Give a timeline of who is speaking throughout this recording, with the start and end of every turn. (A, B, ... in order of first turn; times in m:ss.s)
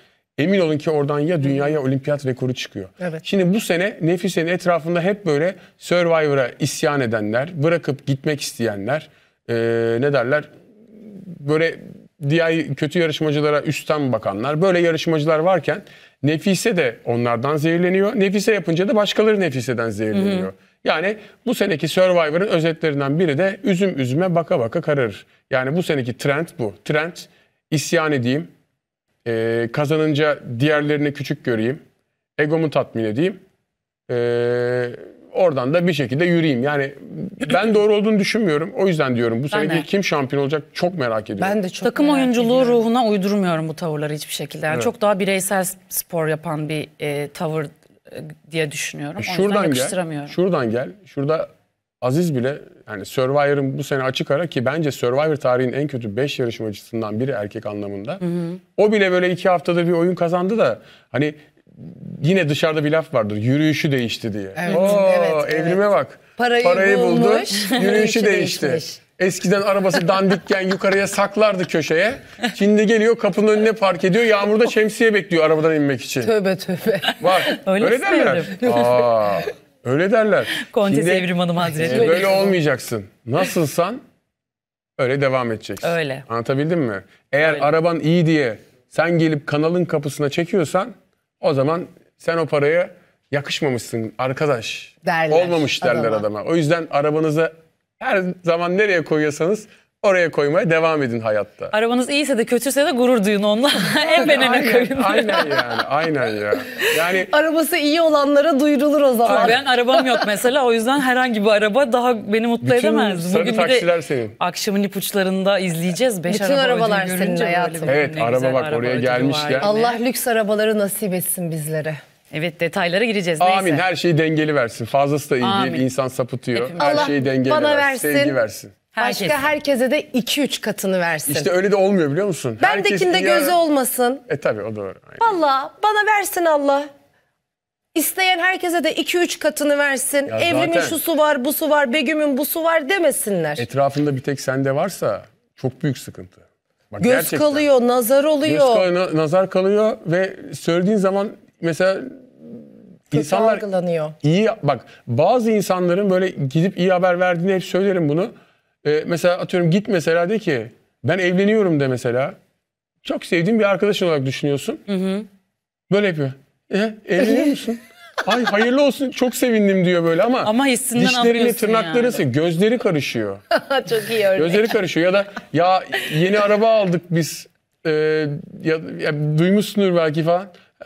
0:00.4-0:28.5 A
0:20.1-0:20.5 B
0:29.2-0:31.8 A
0:32.4-0:33.4 A
0:34.1-0:41.6 A
0:39.5-0:39.9 B
0:41.4-0:42.8 C
0:41.8-0:50.4 B
0:49.2-0:51.5 A
0:52.0-0:58.2 A
0:58.2-0:58.6 B
0:58.8-1:16.3 A
1:04.6-1:05.8 C
1:06.4-1:09.0 C
1:16.2-1:17.6 C
1:17.2-1:24.0 A
1:17.4-1:18.8 B
1:18.6-1:19.2 C
1:20.6-1:22.5 B
1:21.9-1:22.5 C
1:25.0-1:41.7 A
1:25.8-1:26.2 B
1:35.0-1:36.3 C
1:41.7-1:45.6 B
1:44.1-1:47.3 A
1:46.8-1:50.2 C
1:49.2-2:00.0 B
1:49.2-1:49.6 A
1:52.6-1:54.4 A
1:56.3-1:58.0 C
1:57.8-1:59.7 A
1:59.6-2:02.0 C
2:02.3-2:03.8 B
2:03.4-2:08.8 A
2:05.4-2:05.8 B
2:06.5-2:07.1 B
2:06.8-2:08.4 C
2:08.9-2:09.4 B
2:09.0-2:11.5 C
2:11.3-2:13.6 A
2:12.6-2:14.2 C
2:14.3-2:15.3 A
2:15.2-2:16.9 C
2:17.9-2:23.6 C
2:20.2-2:21.0 A
2:23.6-2:27.6 A
2:27.0-2:28.9 C
2:28.4-2:33.6 A
2:33.1-2:34.1 C
2:34.2-2:42.4 A
2:43.0-2:44.8 A
2:44.9-2:45.3 B
2:45.9-2:53.4 A
2:47.2-2:47.5 C
2:50.4-2:52.2 B
2:53.5-2:54.7 C
2:54.3-3:00.5 A